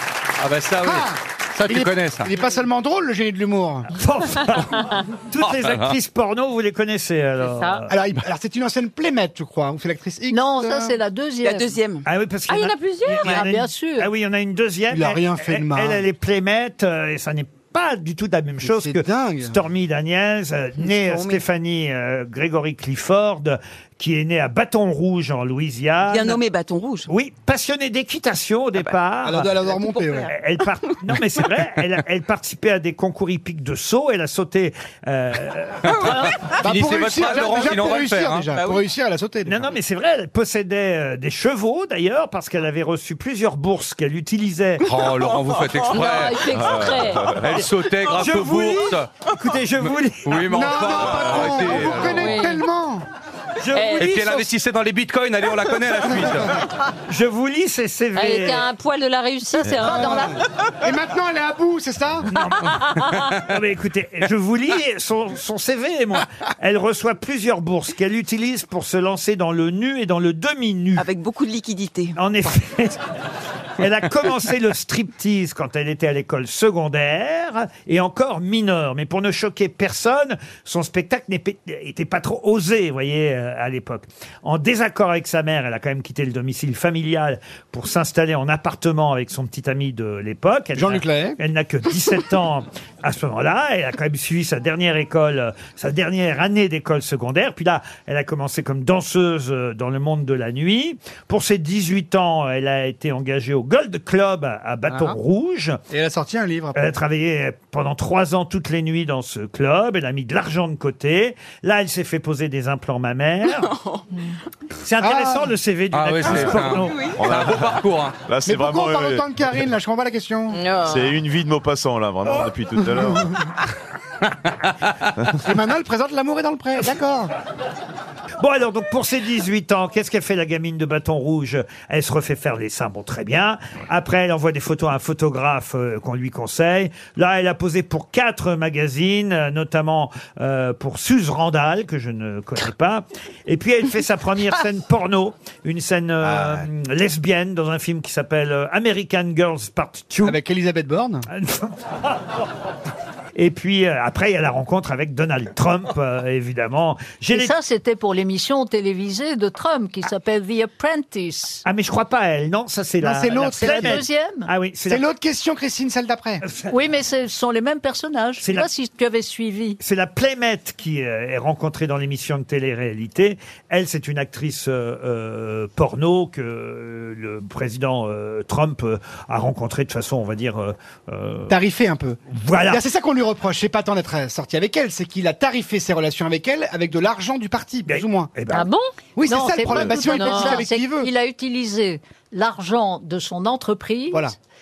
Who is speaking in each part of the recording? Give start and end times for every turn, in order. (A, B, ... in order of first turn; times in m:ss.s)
0:00.4-0:02.3 A
0:00.8-0:03.9 B
0:03.9-0:07.9 C
0:05.4-0:05.9 A
0:07.4-0:07.8 D
0:07.9-0:11.0 B
0:10.3-0:11.8 E
0:11.4-0:12.0 F
0:12.0-0:26.4 C
0:12.5-0:13.4 D
0:13.3-0:14.1 E
0:14.9-0:16.0 B
0:18.6-0:19.6 B
0:20.8-0:21.4 F
0:26.1-0:27.1 F
0:27.1-0:29.5 C
0:29.2-0:30.3 B
0:29.8-0:30.3 F
0:30.3-0:36.3 C
0:35.9-0:36.3 F
0:35.9-0:38.5 A
0:36.6-0:39.7 B
0:38.5-0:38.8 F
0:39.4-0:44.8 C
0:44.8-0:49.1 A
0:45.2-0:46.1 F
0:45.9-0:47.4 D
0:46.5-0:47.5 G
0:48.0-0:51.3 C
0:49.8-0:52.4 A
0:50.4-0:53.0 B
0:52.0-0:52.6 D
0:53.6-0:54.4 C
0:53.7-0:54.1 D
0:54.0-0:56.6 A
0:57.1-0:58.7 C
0:58.1-1:00.4 D
0:59.8-1:02.3 B
1:02.3-1:11.0 C
1:11.0-1:12.2 F
1:12.2-1:13.0 C
1:13.8-1:45.8 C
1:30.7-1:31.4 B
1:44.9-1:45.2 B
1:45.9-1:46.9 B
1:46.7-1:53.7 C
1:53.4-1:54.0 F
1:54.8-1:57.1 C
1:55.0-1:55.5 B
1:55.9-1:58.1 A
1:56.3-1:56.6 B
1:56.3-1:56.6 G
1:56.7-1:57.2 F
1:57.1-1:59.3 G
1:58.4-2:00.6 B
2:00.5-2:01.1 D
2:00.8-2:03.4 G
2:05.4-2:07.3 B
2:08.4-2:30.4 C
2:30.2-2:31.3 B
2:31.3-2:32.4 C
2:33.3-2:37.5 C
2:37.3-2:41.6 E
2:41.6-2:45.0 C
2:43.0-2:44.0 B
2:43.6-2:44.5 E
2:44.9-2:46.4 B
2:46.4-2:46.7 C
2:46.7-2:49.8 E
2:48.4-2:48.7 C
2:49.8-3:01.6 C
3:01.5-3:08.3 B
3:02.3-3:02.8 C
3:07.9-3:08.7 C
3:08.5-3:08.9 D
3:09.2-3:11.1 B
3:09.2-3:14.3 E
3:09.9-3:10.6 D